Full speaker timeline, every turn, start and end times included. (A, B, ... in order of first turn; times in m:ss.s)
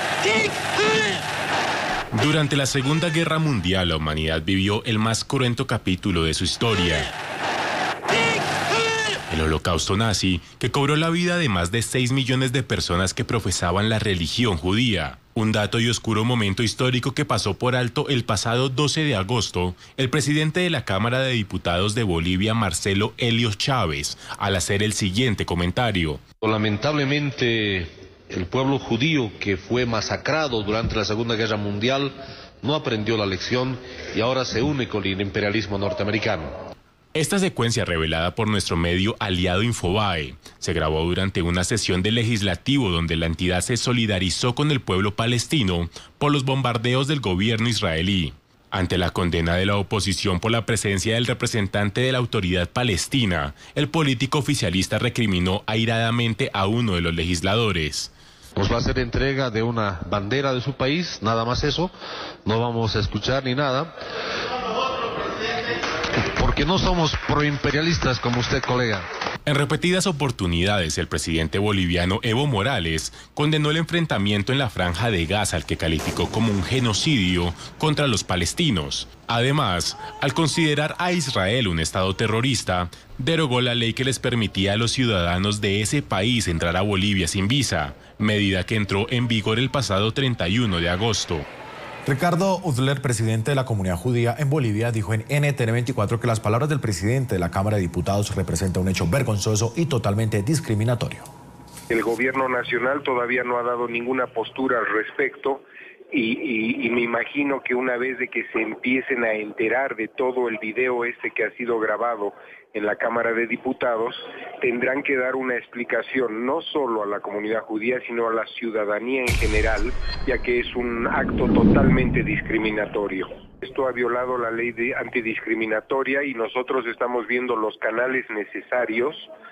0:02.1-0:07.1 A
0:09.3-0:26.2 A
0:26.5-0:27.9 B
0:28.4-0:32.1 B
0:32.7-0:36.5 B
0:37.1-0:58.1 A
0:58.7-1:01.9 B
1:02.5-1:03.9 B
1:06.4-1:09.0 B
1:09.4-1:31.4 A
1:32.0-1:41.3 C
1:41.9-2:09.3 D